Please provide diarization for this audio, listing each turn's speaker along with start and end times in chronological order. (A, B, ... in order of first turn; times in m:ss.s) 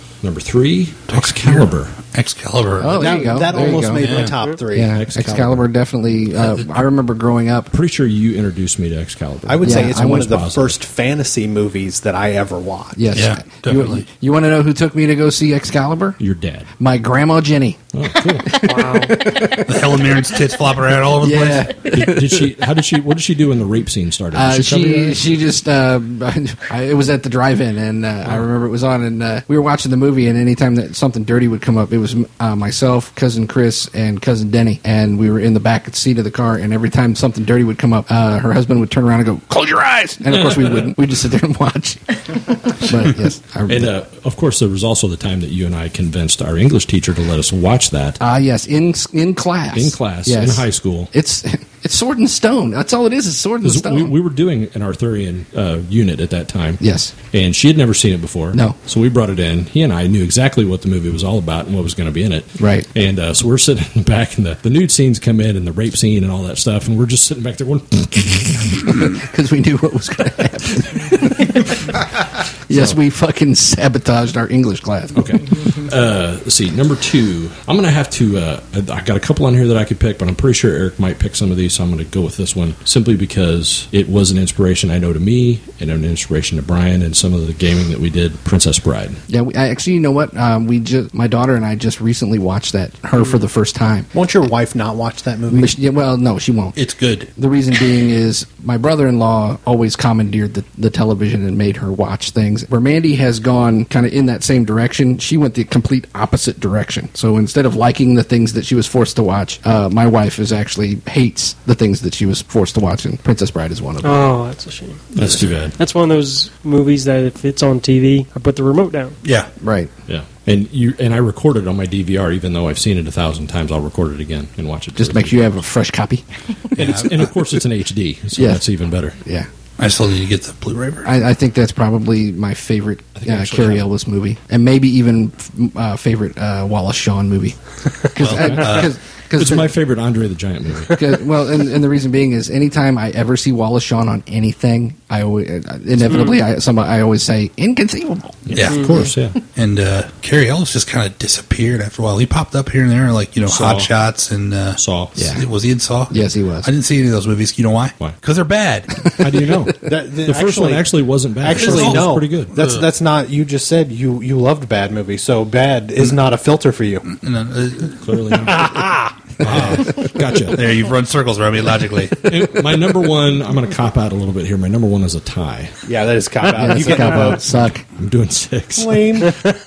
0:00.2-0:02.0 A
0:01.1-0:03.2 B
0:02.8-0:07.7 C
0:02.9-0:05.0 D
0:03.9-0:04.4 B
0:04.8-0:05.7 A
0:07.7-0:10.7 A
0:09.4-0:13.0 D
0:09.6-0:10.4 C
0:12.9-0:16.2 C
0:13.1-0:14.0 B
0:16.2-0:16.7 A
0:16.8-0:17.8 C
0:17.9-0:18.6 A
0:18.4-0:20.0 C
0:18.5-0:19.3 E
0:19.6-0:21.7 B
0:21.2-0:22.5 C
0:21.9-0:25.3 A
0:24.3-0:43.9 C
0:40.3-0:40.9 A
0:43.7-0:48.2 A
0:48.2-0:54.1 C
0:49.7-0:51.1 A
0:53.6-1:08.9 A
0:56.8-0:57.1 C
1:02.6-1:02.9 C
1:08.8-1:11.9 C
1:12.7-1:15.4 C
1:15.1-1:29.2 A
1:29.3-1:34.1 C
1:34.1-1:35.7 D
1:35.5-1:36.7 C
1:36.8-1:37.3 B
1:37.3-1:54.3 C
1:54.0-1:59.2 E
1:55.1-1:55.7 A
1:59.2-1:59.5 B
1:59.6-1:59.9 C
2:00.1-2:05.5 A
2:04.9-2:06.2 C
2:06.7-2:07.3 B
2:06.7-2:09.2 A
2:08.3-2:08.6 C
2:09.2-2:09.5 C
2:09.8-2:11.1 B
2:11.0-2:17.6 C
2:13.2-2:13.8 A
2:18.1-2:19.7 C
2:18.2-2:18.9 B
2:18.2-2:21.0 A
2:20.9-2:28.6 C
2:26.1-2:26.4 E
2:28.5-2:29.4 A
2:28.5-2:28.9 B
2:28.7-2:29.0 E
2:29.4-2:39.1 B
2:33.4-2:33.9 A
2:34.8-2:35.2 A
2:35.2-2:35.4 C
2:36.1-2:36.7 C
2:39.2-2:42.5 A
2:39.8-2:40.9 D
2:41.4-2:47.1 D
2:41.5-2:42.8 B
2:47.1-2:48.0 B
2:48.0-2:50.8 A
2:48.5-2:49.1 D
2:49.4-2:52.3 B
2:52.2-2:55.7 A
2:55.8-2:57.5 D
2:56.5-2:57.8 C
2:58.0-2:59.3 A
2:58.8-2:59.3 D